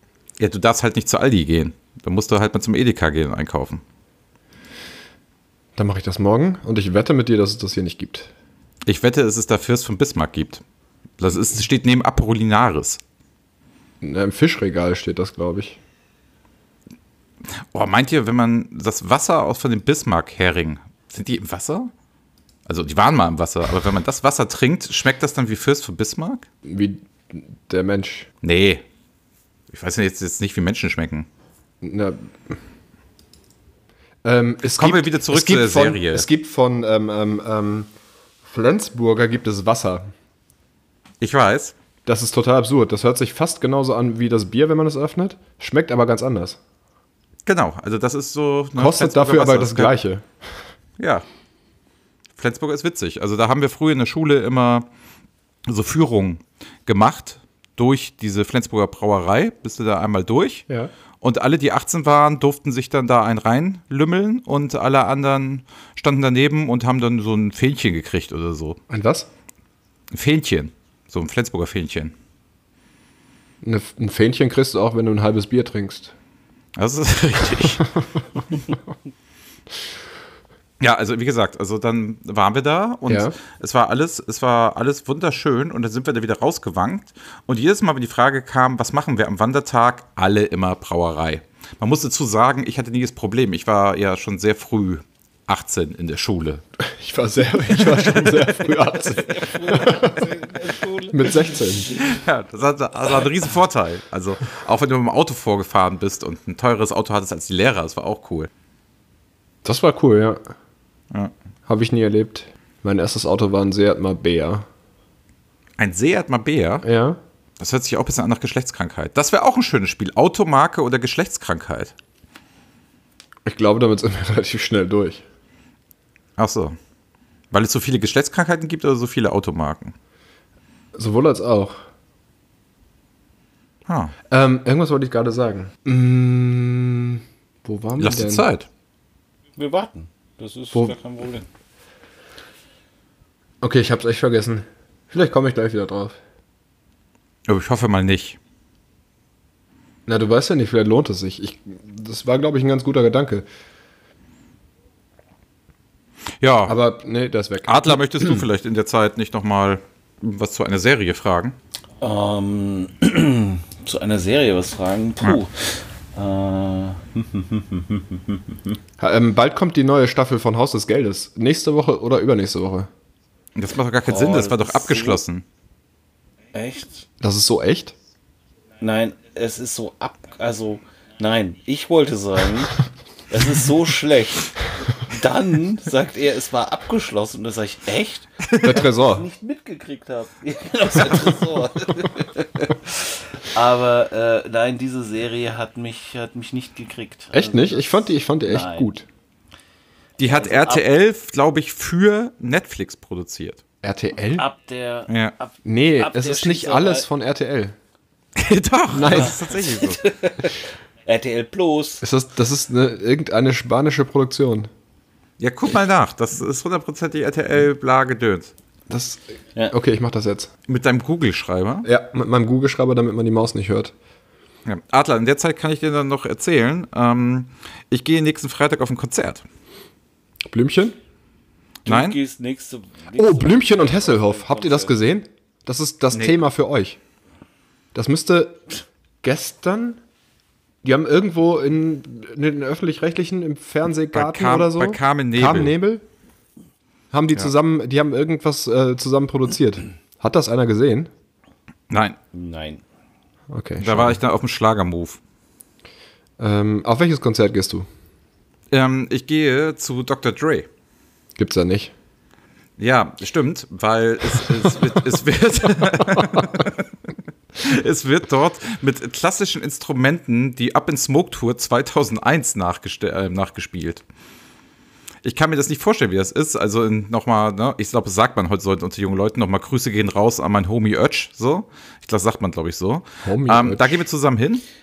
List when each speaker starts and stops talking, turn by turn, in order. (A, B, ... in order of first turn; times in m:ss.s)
0:00.4-0:03.8 A
0:05.8-0:08.3 B
0:08.8-0:10.6 A
0:11.2-0:13.0 A
0:14.0-0:15.8 B
0:17.7-0:21.9 A
0:22.6-0:26.5 A
0:26.6-0:28.3 B
0:28.4-0:28.8 A
0:29.7-0:31.3 A
0:31.8-0:32.6 B
0:34.2-0:37.9 B
0:34.7-0:36.3 A
0:38.4-0:40.1 B
0:41.2-0:41.8 A
0:42.0-0:46.6 B
0:47.4-0:50.0 A
0:48.8-0:50.6 B
0:51.0-0:51.2 A
0:52.4-0:54.9 A
0:55.7-1:00.6 A
1:01.2-1:08.8 A
1:08.9-1:09.3 B
1:10.1-1:12.1 A
1:13.6-1:16.1 B
1:16.8-1:17.8 A
1:20.8-1:36.6 A
1:23.1-1:23.4 B
1:36.8-1:40.1 B
1:37.9-1:38.5 A
1:38.6-1:42.0 C
1:41.1-1:41.9 B
1:42.0-1:48.5 A
1:49.6-1:50.4 B
1:51.7-1:54.6 B
1:55.8-1:56.8 A
1:56.8-1:57.2 B
1:57.6-2:01.9 A
2:03.4-2:05.2 B
2:06.4-2:06.8 A
2:07.5-2:09.9 A
2:10.9-2:11.8 B
2:13.8-2:14.1 A
2:14.3-2:18.5 B
2:18.0-2:18.7 A
2:19.6-2:21.4 C
2:23.6-2:26.2 B
2:27.4-2:28.4 A
2:30.1-2:33.4 B
2:36.4-2:36.8 A
2:36.7-2:38.4 B
2:37.6-2:41.6 A
2:42.0-2:48.8 C
2:49.0-2:52.9 B
2:53.5-2:55.4 A
2:54.0-2:55.2 C
2:56.5-2:57.0 C
2:57.2-2:57.9 B
2:58.8-3:18.9 C
3:08.6-3:09.3 B
3:17.3-3:19.0 B
3:20.2-3:23.6 A
3:20.2-3:20.8 C
3:23.8-3:24.4 B
3:24.4-3:27.1 C
3:25.1-3:25.3 A
3:25.6-3:27.7 B
3:28.4-3:30.0 A
3:28.9-3:29.4 B
3:29.1-3:32.0 C
3:32.0-3:34.7 B
3:35.4-3:38.5 A
3:38.9-3:40.5 B
3:40.7-3:41.9 A
3:41.8-3:43.9 B
3:44.6-3:49.4 A
3:50.5-3:51.0 B
3:51.8-3:55.0 C
3:51.8-3:52.2 A
3:53.2-3:57.0 B
3:56.1-3:56.4 A
3:57.9-3:58.6 B
3:59.2-4:00.0 B
4:00.8-4:06.0 B
4:04.1-4:05.8 A
4:07.1-4:11.1 B
4:11.9-4:12.2 A
4:12.3-4:12.8 C
4:13.5-4:14.2 B
4:13.8-4:15.2 A
4:16.4-4:17.8 B
4:18.7-4:20.7 A
4:21.4-4:21.9 B
4:22.8-4:26.9 A
4:26.2-4:26.5 B
4:27.5-4:34.0 A
4:35.2-4:44.6 A
4:43.2-4:44.0 B